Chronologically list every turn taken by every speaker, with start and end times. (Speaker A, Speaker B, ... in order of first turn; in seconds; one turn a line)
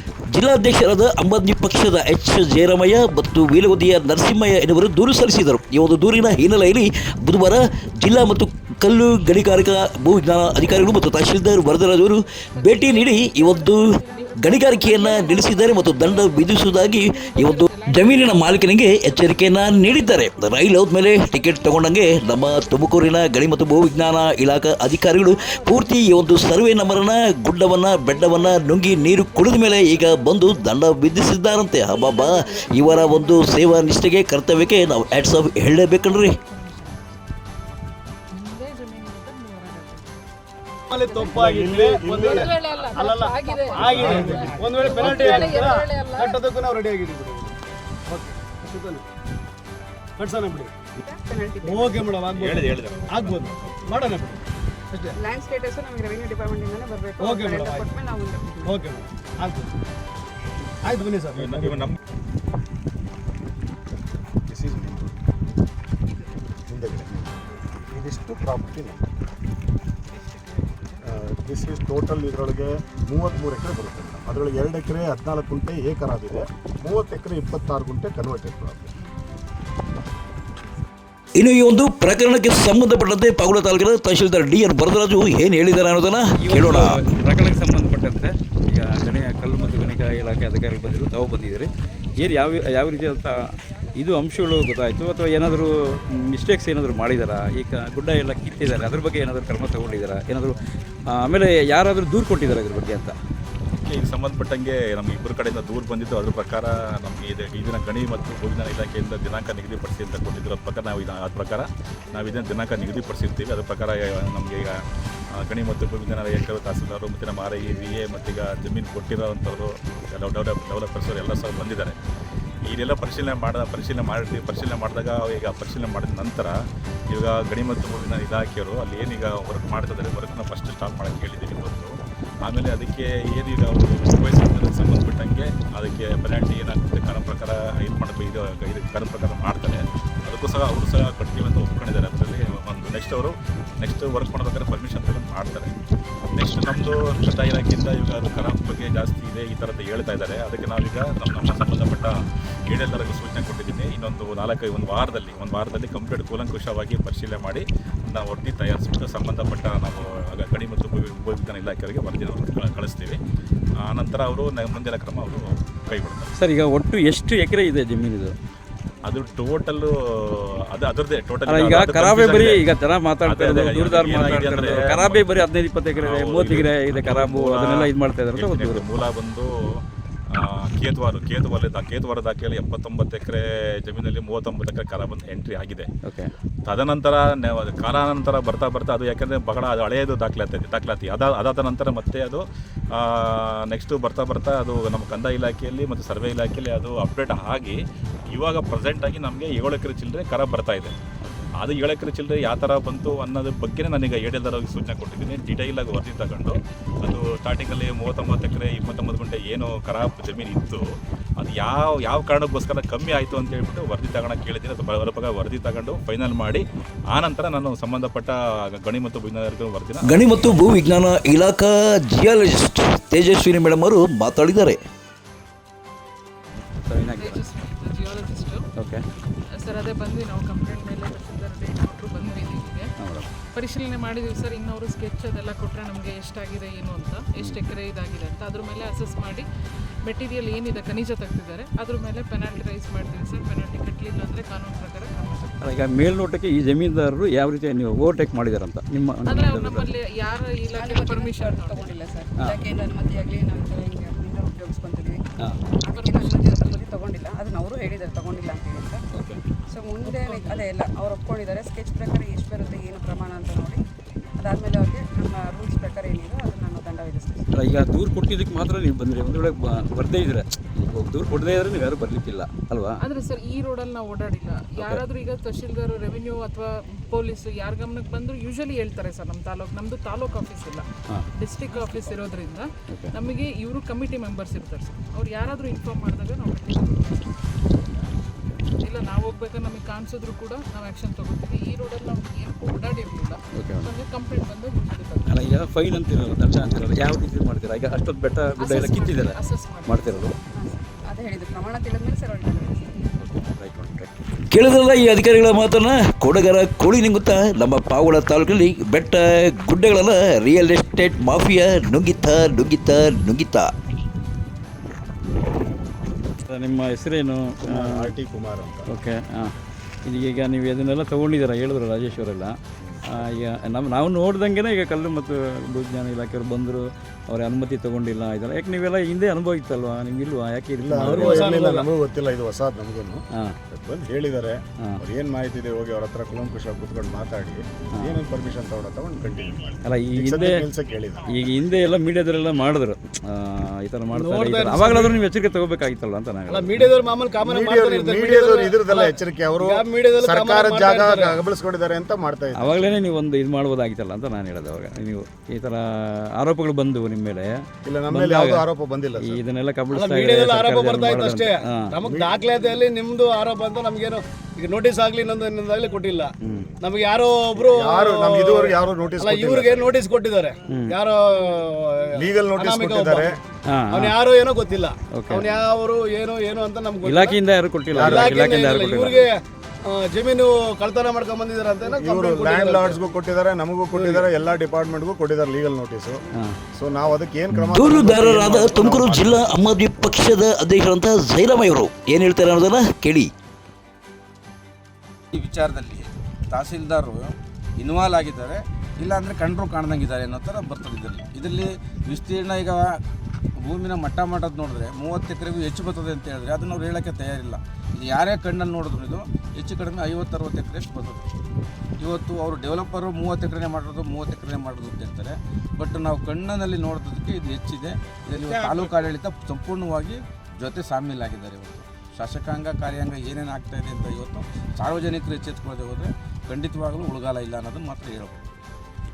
Speaker A: 0.3-36.4
Speaker B: 12.5-22.8
Speaker B: 25.5-26.3
Speaker B: 32.2-33.1
Speaker B: 35.9-37.0
Speaker B: 38.3-40.2
Speaker C: 40.9-47.6
Speaker B: 41.1-41.3
Speaker D: 41.3-42.4
Speaker B: 42.2-46.4
Speaker E: 43.5-43.8
Speaker D: 43.9-45.0
Speaker C: 48.1-49.0
Speaker C: 50.2-50.7
Speaker E: 51.0-52.1
Speaker C: 51.6-55.1
Speaker F: 52.3-53.8
Speaker E: 55.2-58.9
Speaker C: 57.2-57.9
Speaker C: 58.6-59.7
Speaker C: 60.8-61.9
Speaker F: 61.3-62.0
Speaker D: 64.5-65.2
Speaker D: 66.7-69.0
Speaker B: 70.1-71.0
Speaker D: 71.0-78.9
Speaker A: 81.4-87.0
Speaker G: 86.3-100.6
Speaker G: 101.1-103.2
Speaker F: 103.8-114.8
Speaker F: 115.4-122.0
Speaker F: 122.7-126.5
Speaker F: 127.1-145.7
Speaker F: 146.3-152.2
Speaker F: 152.7-163.2
Speaker F: 163.8-166.3
Speaker G: 166.3-168.3
Speaker F: 169.1-172.6
Speaker G: 171.4-178.8
Speaker F: 173.2-175.3
Speaker F: 176.0-185.9
Speaker G: 186.0-186.3
Speaker F: 186.7-197.8
Speaker F: 198.3-200.9
Speaker G: 201.2-201.5
Speaker F: 201.6-210.8
Speaker F: 211.4-220.3
Speaker A: 220.0-224.8
Speaker G: 226.6-227.4
Speaker B: 227.2-228.7
Speaker G: 228.8-229.0
Speaker B: 229.6-232.9
Speaker G: 233.0-233.3
Speaker B: 233.5-239.4
Speaker B: 240.1-245.6
Speaker G: 245.6-249.9
Speaker B: 249.2-252.0
Speaker E: 250.7-255.2
Speaker E: 255.8-259.1
Speaker B: 255.9-256.8
Speaker G: 259.1-259.4
Speaker E: 259.7-263.8
Speaker B: 260.0-260.7
Speaker E: 264.4-267.5
Speaker G: 267.5-273.0
Speaker B: 273.0-287.4
Speaker G: 274.8-275.0
Speaker E: 282.1-282.5
Speaker B: 288.8-295.4
Speaker G: 293.6-293.9
Speaker G: 295.3-300.3
Speaker B: 298.6-300.2
Speaker E: 300.5-303.1
Speaker G: 303.2-304.1
Speaker A: 304.5-313.7
Speaker G: 316.5-318.1
Speaker D: 317.6-318.9
Speaker G: 318.9-319.5
Speaker G: 320.1-322.6
Speaker D: 322.8-323.2
Speaker G: 323.1-331.6
Speaker D: 330.8-341.5
Speaker C: 331.0-331.9
Speaker G: 339.8-340.6
Speaker G: 341.3-346.9
Speaker C: 344.1-345.2
Speaker C: 346.5-351.4
Speaker D: 347.4-352.9
Speaker G: 352.6-357.5
Speaker D: 357.8-359.4
Speaker G: 358.1-358.6
Speaker G: 359.2-361.9
Speaker C: 359.9-373.3
Speaker D: 362.0-362.3
Speaker G: 366.4-366.7
Speaker D: 367.6-369.9
Speaker G: 370.7-370.9
Speaker D: 372.2-373.3
Speaker G: 373.7-374.1
Speaker C: 373.9-377.4
Speaker G: 375.1-375.4
Speaker G: 377.0-379.2
Speaker D: 377.9-378.4
Speaker C: 377.9-383.0
Speaker D: 381.9-390.1
Speaker C: 383.9-384.2
Speaker A: 387.7-393.3
Speaker H: 395.3-403.0
Speaker H: 403.6-411.2
Speaker H: 412.0-428.6